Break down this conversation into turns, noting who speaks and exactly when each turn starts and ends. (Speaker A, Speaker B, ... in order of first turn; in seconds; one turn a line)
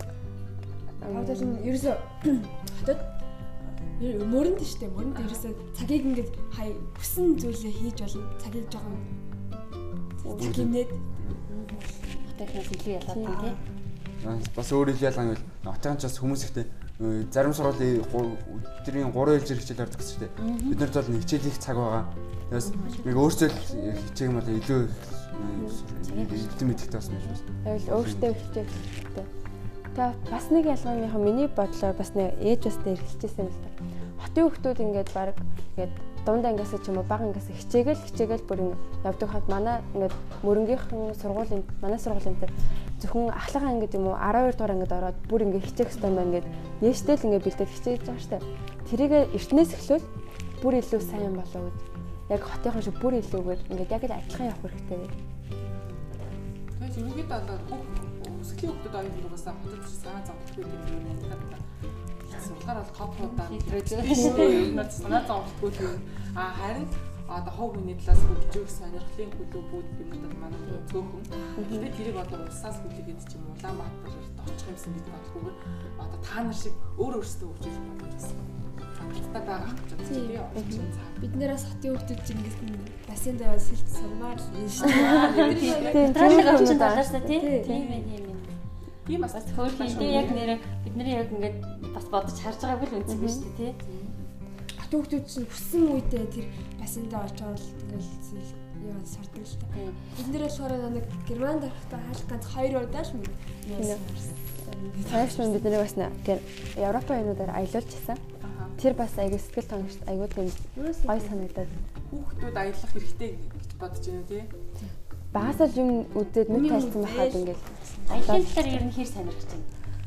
Speaker A: 1.0-1.7
Speaker B: 1.0-3.1
Speaker B: 3.9-9.1
Speaker C: 5.1-5.4
Speaker B: 10.2-11.0
Speaker A: 10.2-10.7
Speaker D: 10.4-11.4
Speaker C: 11.5-13.6
Speaker A: 13.1-13.4
Speaker B: 13.3-13.6
Speaker D: 14.2-28.8
Speaker C: 20.4-20.8
Speaker E: 22.6-22.9
Speaker C: 22.6-23.1
Speaker C: 26.0-27.4
Speaker A: 27.6-29.3
Speaker A: 29.9-50.0
Speaker A: 50.6-55.1
Speaker E: 55.6-56.0
Speaker E: 56.8-61.6
Speaker E: 62.2-81.2
Speaker C: 63.2-65.2
Speaker A: 64.1-64.7
Speaker B: 71.3-71.6
Speaker A: 71.6-71.9
Speaker B: 80.1-80.6
Speaker A: 80.5-80.8
Speaker B: 81.2-87.8
Speaker E: 84.8-86.5
Speaker C: 85.0-88.5
Speaker A: 85.8-88.0
Speaker E: 89.0-90.4
Speaker C: 89.3-93.8
Speaker A: 89.9-90.3
Speaker B: 90.0-90.4
Speaker A: 93.1-93.4
Speaker E: 93.9-94.1
Speaker B: 94.8-105.7
Speaker C: 99.7-100.0
Speaker A: 103.8-104.0
Speaker A: 104.7-108.2
Speaker E: 108.4-108.7
Speaker A: 108.8-111.7
Speaker B: 110.8-111.4
Speaker E: 112.1-114.5
Speaker A: 115.3-117.6
Speaker D: 115.3-115.6
Speaker B: 116.5-118.5
Speaker C: 118.1-119.7
Speaker A: 118.2-118.6